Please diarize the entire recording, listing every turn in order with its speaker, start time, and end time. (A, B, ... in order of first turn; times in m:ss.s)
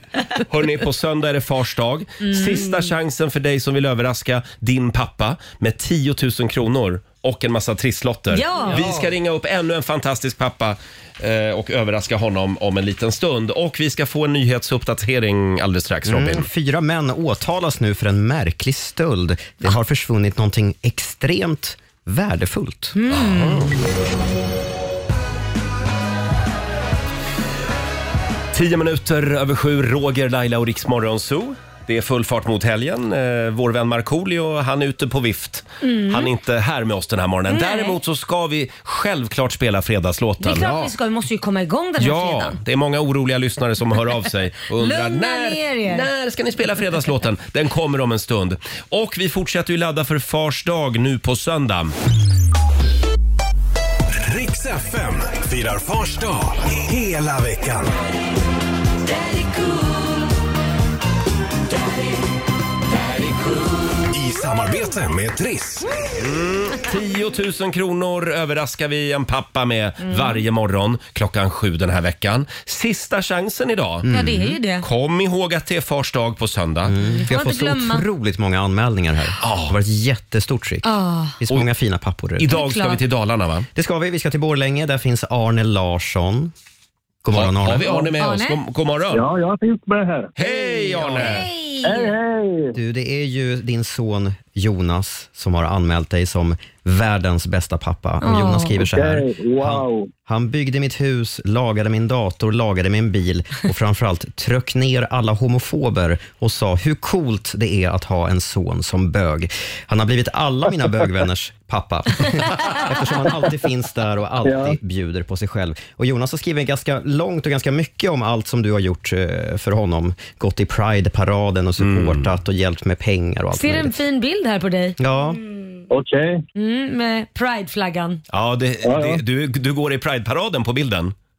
0:00.5-0:16.5 A
0:02.2-0:02.8 B
0:08.3-0:08.8 B
0:16.0-0:23.0 C
0:22.9-0:23.7 B
0:23.1-0:23.7 A
0:28.5-0:40.8 A
0:35.8-0:36.3 B
0:37.5-0:38.0 B
0:40.4-0:42.6 B
0:42.0-0:51.9 A
0:44.8-0:46.0 B
0:54.1-0:58.0 D
1:04.1-1:06.0 D
1:06.2-1:14.1 A
1:10.0-1:10.4 B
1:14.0-1:14.6 C
1:14.1-1:14.8 B
1:14.8-1:16.9 A
1:16.8-1:22.5 C
1:17.3-1:18.0 B
1:19.4-1:19.8 A
1:20.8-1:21.4 B
1:22.4-1:23.7 A
1:22.5-1:23.0 B
1:23.7-1:26.5 C
1:27.2-1:28.1 C
1:27.3-1:29.2 A
1:28.2-1:28.6 B
1:29.1-1:31.2 E
1:30.4-1:31.5 A
1:31.2-1:32.1 B
1:31.8-1:32.7 E
1:32.7-2:04.0 C
1:38.2-1:38.7 B
1:38.8-1:40.1 E
1:54.4-1:54.8 E
2:01.8-2:02.3 A
2:03.5-2:05.0 B
2:05.0-2:05.4 C
2:05.9-2:06.4 E
2:06.6-2:08.2 B
2:08.3-2:11.1 A
2:08.8-2:09.2 E